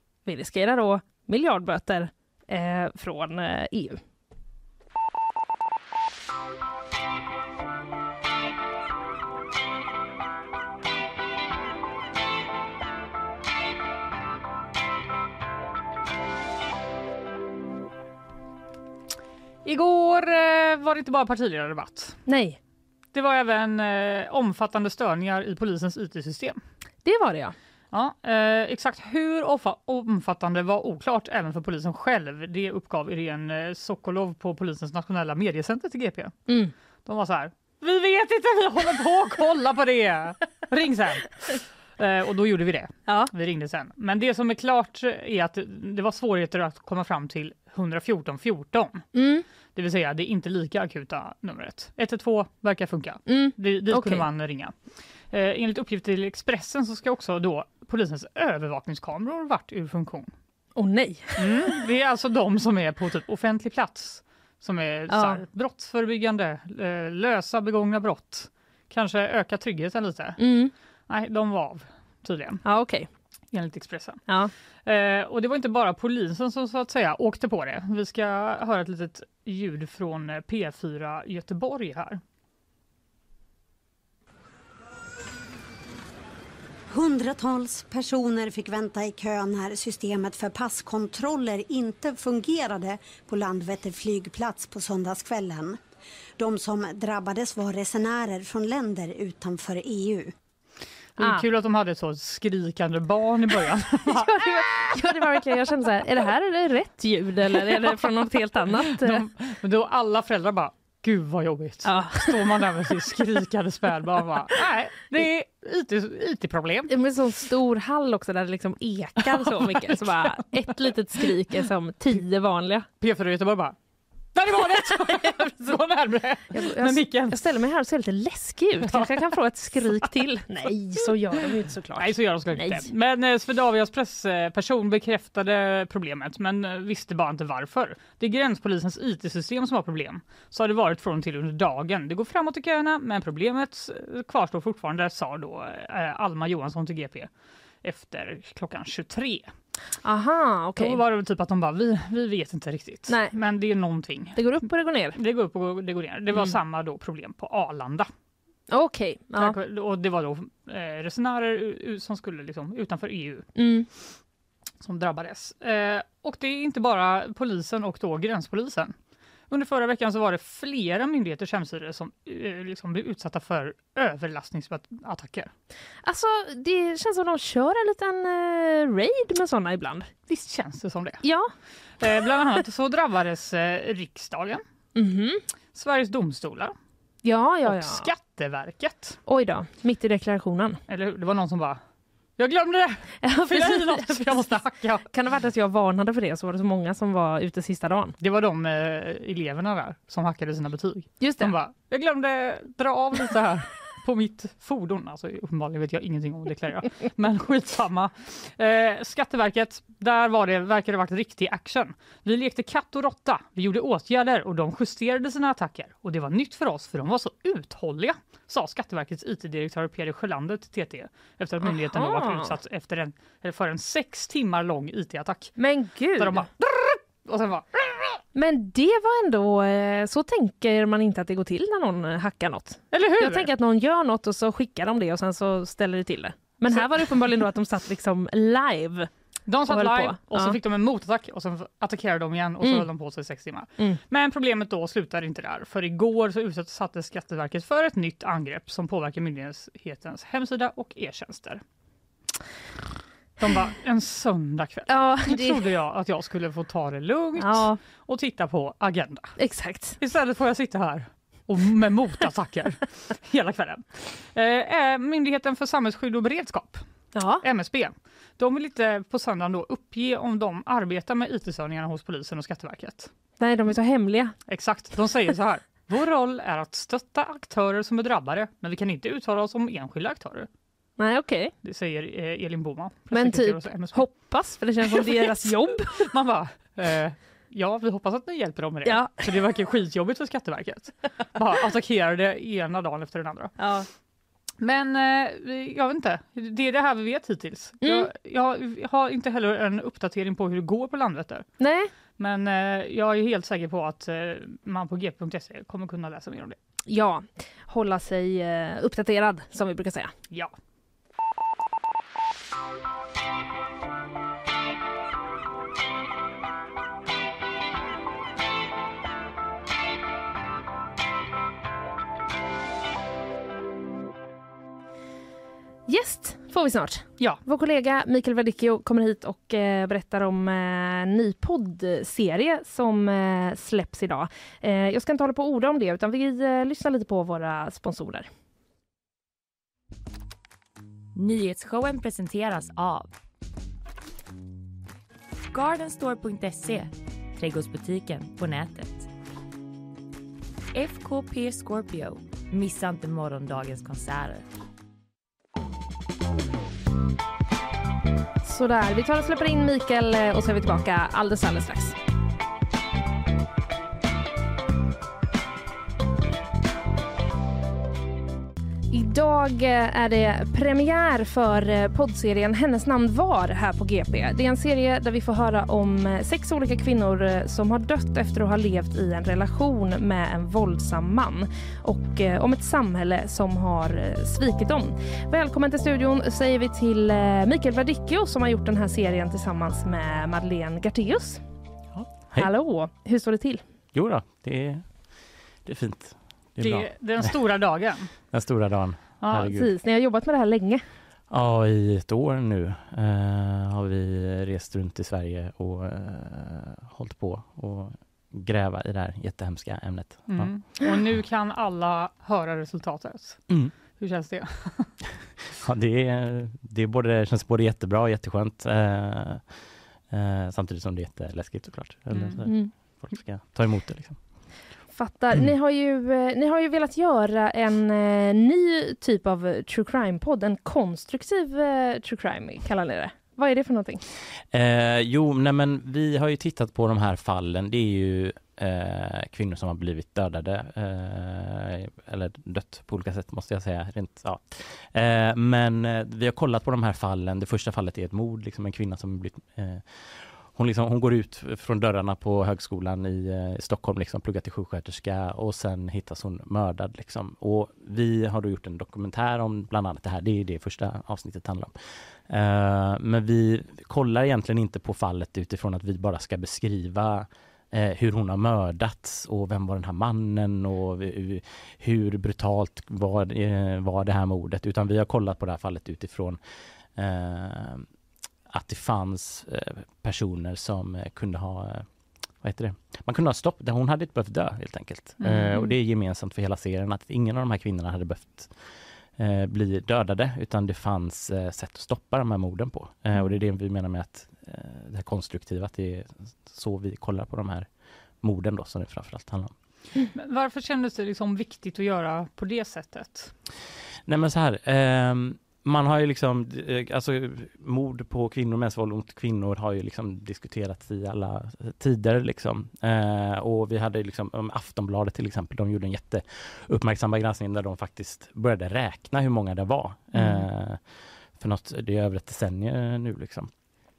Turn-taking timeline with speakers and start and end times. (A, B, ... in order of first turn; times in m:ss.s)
0:00.2-0:04.0 A
0:19.6-0:22.2 B
0:22.3-0:22.6 A
0:23.1-0:26.6 B
0:27.0-0:27.5 A
0:27.9-0:36.4 B
0:37.0-0:49.1 B
0:49.1-0:49.4 A
0:49.7-1:00.3 B
0:53.3-0:54.2 A
1:00.8-1:01.7 A
1:01.4-1:10.4 B
1:05.1-1:05.4 A
1:10.4-1:10.7 A
1:11.1-1:12.6 B
1:12.6-1:13.1 A
1:13.5-1:14.3 B
1:14.3-1:14.5 A
1:14.8-1:22.2 B
1:26.9-1:35.8 C
1:36.4-1:40.3 C
1:41.2-1:44.5 B
1:41.2-1:41.4 A
1:44.1-1:49.2 A
1:47.5-1:48.1 B
1:48.7-1:56.9 B
1:51.8-1:52.4 A
1:56.9-2:02.8 A
1:59.2-2:00.4 B
2:03.0-2:03.7 B
2:04.3-2:07.4 B
2:04.9-2:05.7 A
2:06.5-2:12.9 A
2:08.9-2:10.1 B
2:12.0-2:27.3 B
2:27.8-2:29.5 B
2:30.0-2:31.0 A
2:30.8-2:34.6 B
2:33.1-2:33.3 A
2:34.4-2:35.2 A
2:35.1-2:38.1 B
2:38.7-2:39.6 A
2:39.4-2:43.5 B
2:43.6-2:43.9 A
2:44.8-2:48.9 B
2:49.5-2:55.5 B
2:56.0-3:00.1 A
3:00.3-3:01.2 B
3:01.2-3:01.5 A
3:02.0-3:04.6 B
3:04.9-3:05.4 A
3:05.7-3:06.7 B
3:07.2-3:08.1 A
3:07.6-3:09.2 B
3:09.2-3:10.8 A
3:10.9-3:11.8 B
3:12.4-3:15.0 B
3:13.2-3:18.2 A
3:18.2-3:45.6 B
3:21.2-3:21.5 A
3:41.6-3:42.5 A
3:45.6-3:46.4 A
3:46.2-3:48.2 B
3:48.3-3:59.1 A
3:52.9-3:53.5 B
3:56.7-3:57.1 B
3:59.5-4:11.6 B
3:59.7-4:00.6 A
4:13.4-4:19.3 B
4:14.9-4:15.6 A
4:17.4-4:17.8 A
4:19.4-4:20.0 A
4:20.0-4:26.8 B
4:27.1-4:27.4 A
4:27.4-4:33.1 B
4:33.4-4:34.4 A
4:34.5-4:40.5 B
4:41.0-4:41.5 A
4:41.6-4:44.1 B
4:43.1-4:46.0 A
4:44.9-4:53.6 B
4:48.8-4:49.3 A
4:53.6-4:53.9 A
4:54.6-5:01.5 B
4:57.8-4:58.1 A
5:01.6-5:01.9 A
5:02.2-5:06.6 B
5:06.9-5:10.1 A
5:25.9-5:38.3 A
5:41.1-5:43.1 D
5:45.5-5:49.1 D
5:50.7-5:54.4 D
5:58.4-6:02.0 A
6:08.9-6:31.4 A
6:31.9-6:32.5 E
6:32.4-6:33.6 A
6:33.9-6:37.4 E
6:36.6-6:38.1 B
6:38.3-6:39.7 E
6:39.2-6:39.5 B
6:39.5-6:40.8 A
6:41.3-6:50.5 E
6:50.3-6:54.9 B
6:53.5-6:53.7 E
6:55.6-7:04.2 E
7:02.1-7:02.4 B
7:02.4-7:02.7 A
7:04.9-7:14.0 A
7:14.5-7:57.9 E
7:58.5-8:17.7 E
8:05.2-8:05.8 B
8:18.2-8:19.5 E
8:20.1-8:23.3 B
8:24.1-8:43.5 E
8:40.1-8:40.4 B